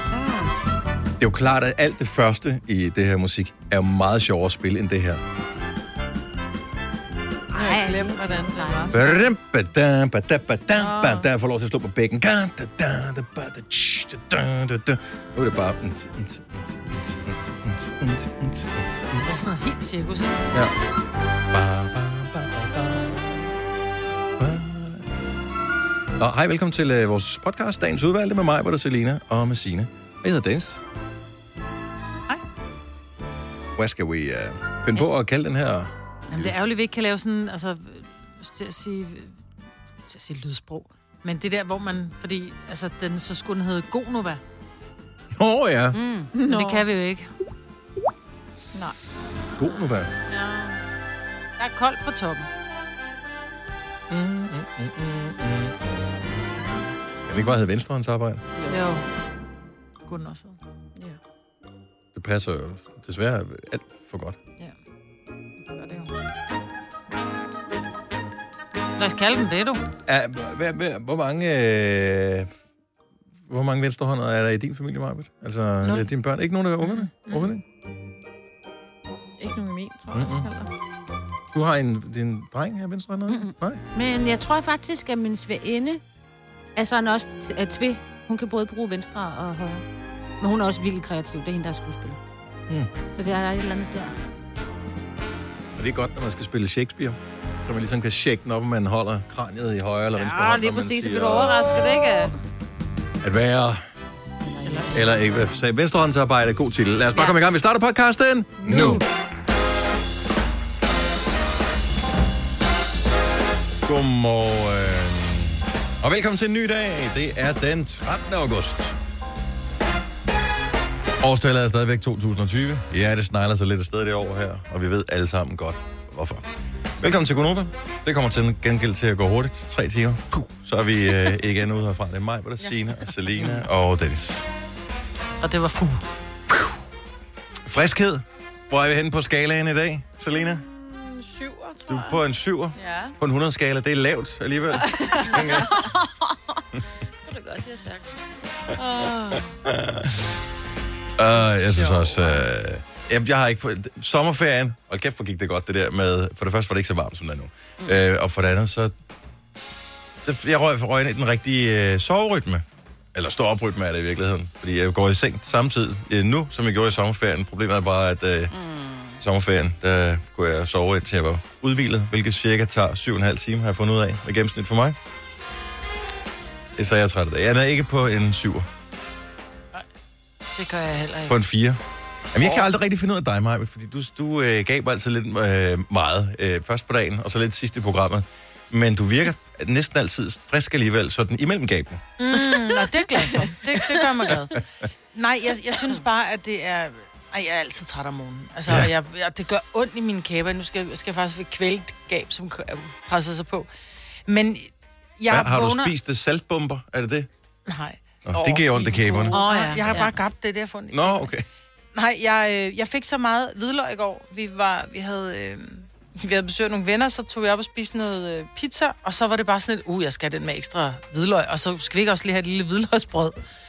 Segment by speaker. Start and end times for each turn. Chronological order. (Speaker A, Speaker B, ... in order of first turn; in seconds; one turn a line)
Speaker A: 0.1-0.5
Speaker B: 1.2-5.2
Speaker A: 7.5-9.2
Speaker C: 7.5-8.9
Speaker B: 8.9-19.3
Speaker D: 19.2-20.4
Speaker B: 21.5-23.2
Speaker B: 24.4-25.1
Speaker B: 26.2-30.8
Speaker B: 33.8-36.5
Speaker D: 36.3-39.4
Speaker D: 40.1-44.4
Speaker B: 45.4-46.0
Speaker A: 45.9-46.3
Speaker C: 46.4-46.8
Speaker D: 46.4-47.3
Speaker B: 49.6-50.1
Speaker D: 50.3-50.8
Speaker D: 51.6-52.5
Speaker B: 54.1-55.8
Speaker B: 57.3-58.4
Speaker D: 58.6-59.0
Speaker D: 60.0-60.6
Speaker B: 62.1-64.4
Speaker D: 65.7-66.1
Speaker D: 69.0-69.8
Speaker B: 70.0-72.5
Speaker B: 73.5-77.6
Speaker C: 79.4-80.7
Speaker B: 80.1-80.5
Speaker B: 81.5-83.8
Speaker A: 83.3-86.0
Speaker A: 86.8-89.8
Speaker A: 90.4-92.2
Speaker A: 93.1-94.1
Speaker B: 95.8-101.7
Speaker A: 100.1-102.3
Speaker B: 103.2-103.8
Speaker A: 104.6-104.8
Speaker D: 104.6-105.0
Speaker B: 104.9-109.0
Speaker A: 107.1-107.4
Speaker A: 108.7-109.0
Speaker B: 113.8-119.0
Speaker B: 121.2-126.5
Speaker B: 127.0-134.4
Speaker D: 133.4-133.6
Speaker D: 135.4-136.0
Speaker B: 137.7-140.6
Speaker C: 140.3-142.2
Speaker B: 141.9-145.8
Speaker C: 142.8-143.1
Speaker C: 144.9-145.9
Speaker C: 147.3-148.1
Speaker C: 148.8-149.4
Speaker B: 149.7-150.3
Speaker B: 151.2-158.9
Speaker B: 160.2-168.5
Speaker A: 168.5-169.2
Speaker B: 169.2-175.0
Speaker B: 176.8-178.7
Speaker D: 180.6-181.3
Speaker B: 181.3-181.8
Speaker B: 182.3-192.0
Speaker D: 192.2-194.6
Speaker B: 194.3-194.6
Speaker D: 195.1-203.7
Speaker D: 204.3-205.9
Speaker B: 205.3-207.3
Speaker D: 207.7-208.0
Speaker B: 208.2-209.9
Speaker C: 208.3-209.2
Speaker D: 208.8-211.3
Speaker A: 209.3-210.1
Speaker B: 210.9-211.4
Speaker D: 211.9-223.3